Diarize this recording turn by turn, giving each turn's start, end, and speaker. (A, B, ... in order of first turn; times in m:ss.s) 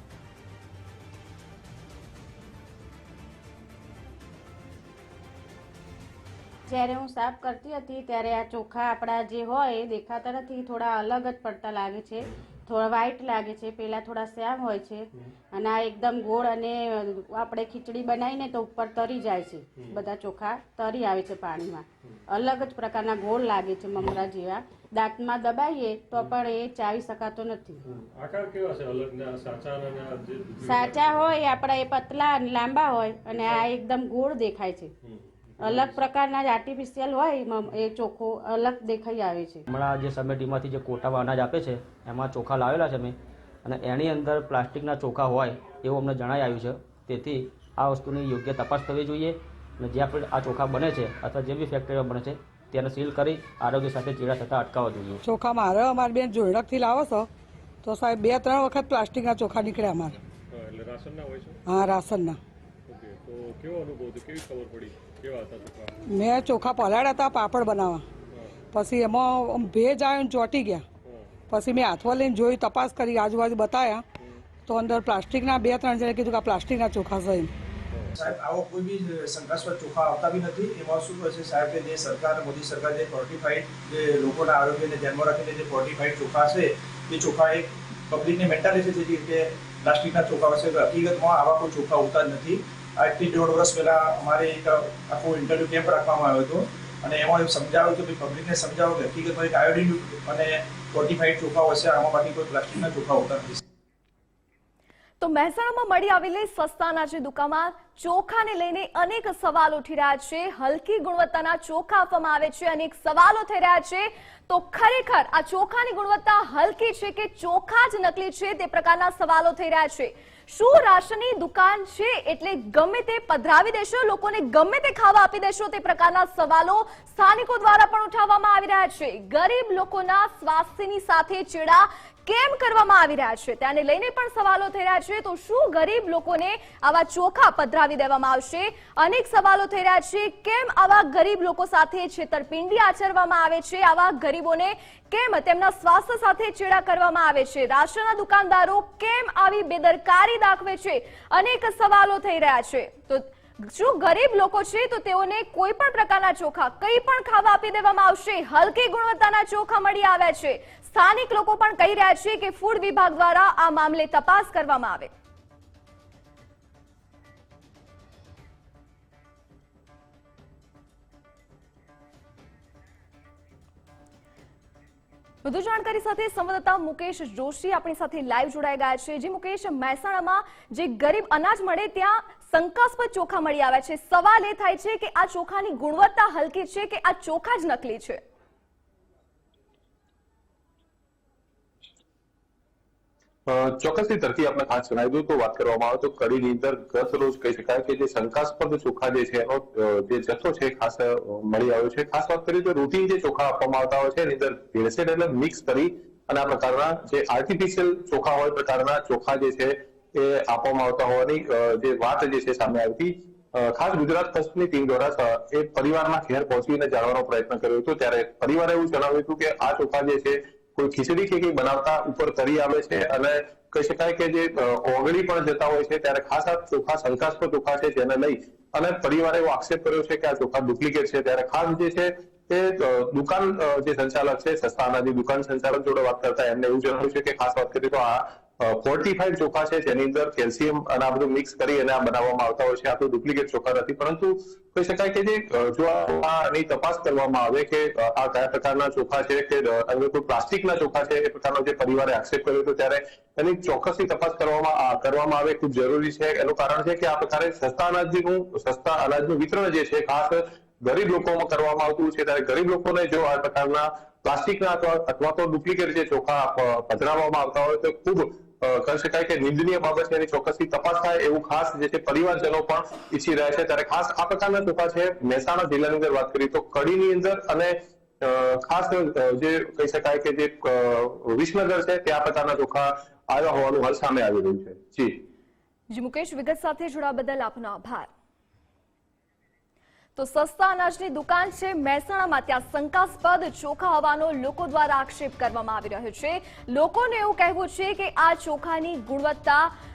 0:06.7-0:27.8 A
0:27.8-0:31.3 B
0:30.6-0:34.9 A
0:33.4-0:33.7 B
0:35.1-0:36.0 B
0:35.6-0:39.6 A
0:39.7-0:55.2 C
0:55.2-0:57.3 D
0:57.8-1:00.2 D
1:00.5-1:01.6 B
1:01.7-1:02.4 D
1:02.9-1:06.0 B
1:06.1-1:08.0 D
1:08.7-1:10.8 D
1:11.0-1:11.3 B
1:11.5-1:14.0 D
1:14.6-1:17.5 D
1:17.9-1:18.2 B
1:18.2-1:43.6 E
1:45.2-2:45.1 F
2:55.4-3:08.2 F
3:13.5-4:45.2 G
4:45.9-4:48.1 F
4:50.2-4:59.7 F